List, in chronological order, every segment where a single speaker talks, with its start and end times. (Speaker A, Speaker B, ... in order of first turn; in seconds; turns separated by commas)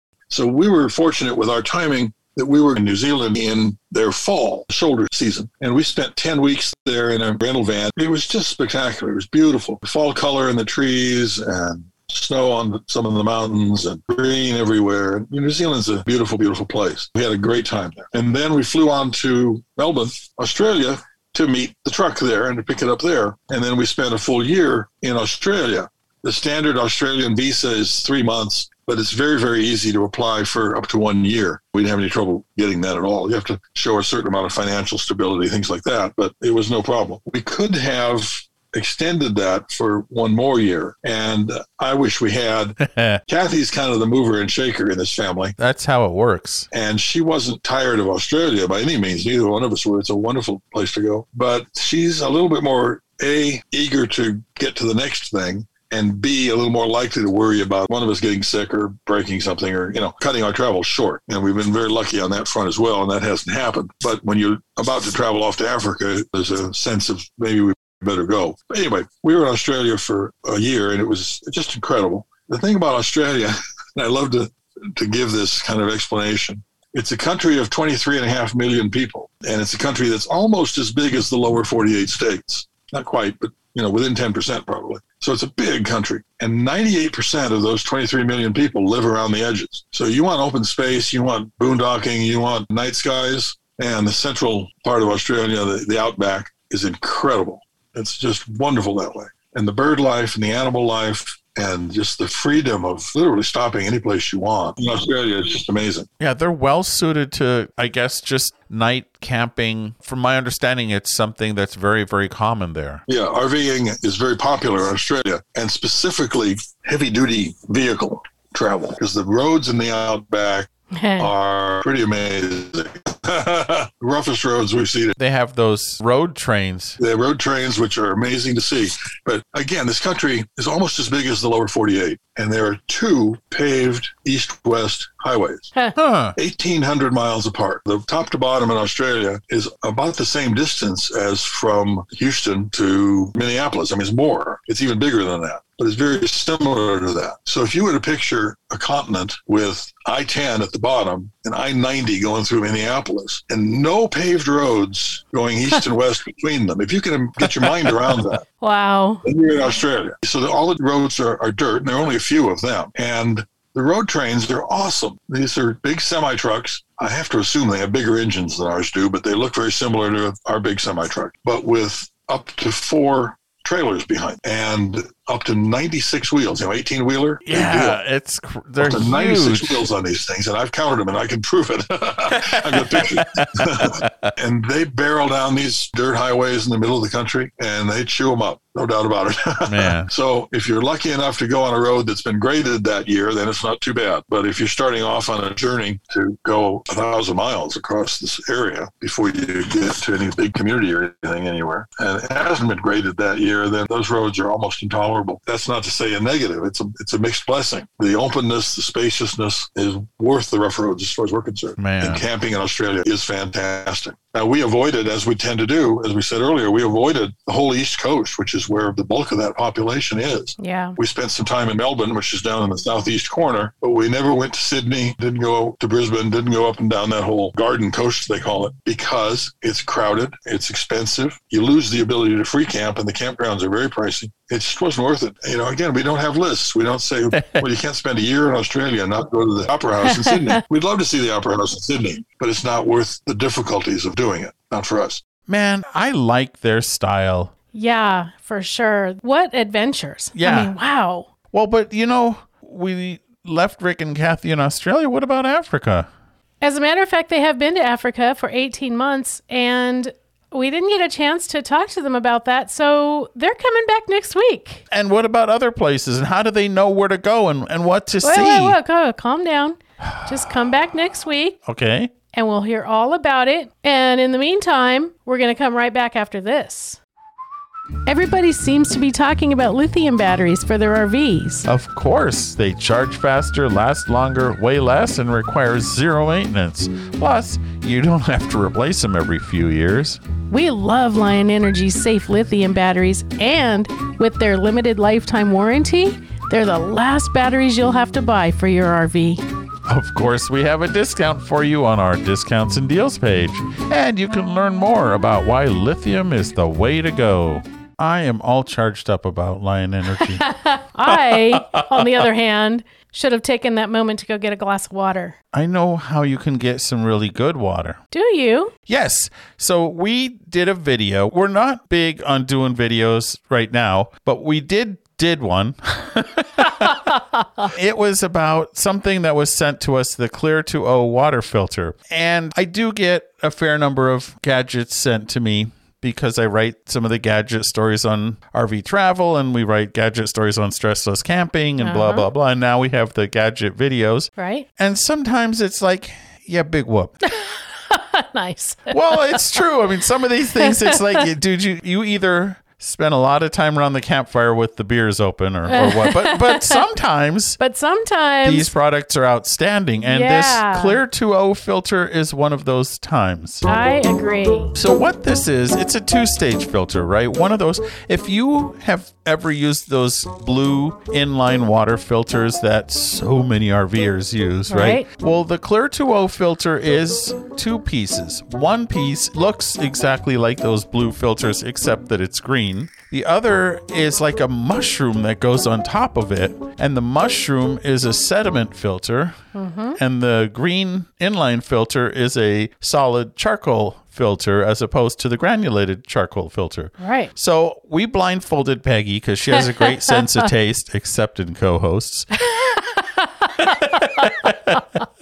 Speaker A: 0.3-45.6, Speaker B: 42.8-43.2, Speaker B: 45.6-46.7, Speaker A: 46.7-106.1, Speaker B: 106.2-113.0, Speaker A: 113.1-125.2, Speaker C: 120.9-121.3, Speaker B: 125.2-127.0, Speaker A: 127.0-135.7, Speaker B: 136.0-136.4, Speaker A: 136.4-158.4, Speaker C: 158.6-159.2, Speaker A: 159.2-178.0, Speaker B: 177.5-179.9, Speaker A: 178.8-245.2, Speaker B: 182.3-184.3, Speaker B: 189.7-190.1, Speaker B: 211.8-212.2, Speaker C: 220.6-221.0, Speaker B: 237.4-237.7, Speaker B: 245.5-247.5, Speaker C: 247.7-251.3, Speaker B: 250.4-250.7, Speaker B: 251.5-256.1, Speaker C: 256.6-264.8, Speaker B: 264.9-268.8, Speaker C: 268.2-271.6, Speaker B: 271.7-272.1, Speaker C: 272.3-277.0, Speaker C: 278.1-281.7, Speaker B: 281.7-290.2, Speaker C: 290.5-299.4, Speaker B: 299.9-310.5, Speaker C: 310.2-315.4, Speaker B: 311.1-312.2, Speaker B: 315.5-318.0, Speaker C: 318.1-318.7, Speaker B: 318.9-326.9, Speaker C: 326.8-327.7, Speaker B: 327.7-347.1, Speaker C: 341.8-342.3, Speaker C: 344.4-344.7, Speaker C: 347.2-349.4, Speaker B: 348.9-357.6, Speaker C: 350.6-351.2, Speaker C: 355.7-356.8, Speaker C: 357.6-358.7, Speaker B: 358.4-363.6, Speaker C: 360.0-361.0, Speaker C: 363.7-364.8, Speaker B: 364.8-389.4, Speaker C: 374.7-375.1, Speaker C: 389.5-390.0, Speaker B: 390.0-402.3, Speaker C: 397.0-397.3, Speaker C: 402.4-404.3, Speaker B: 403.6-404.8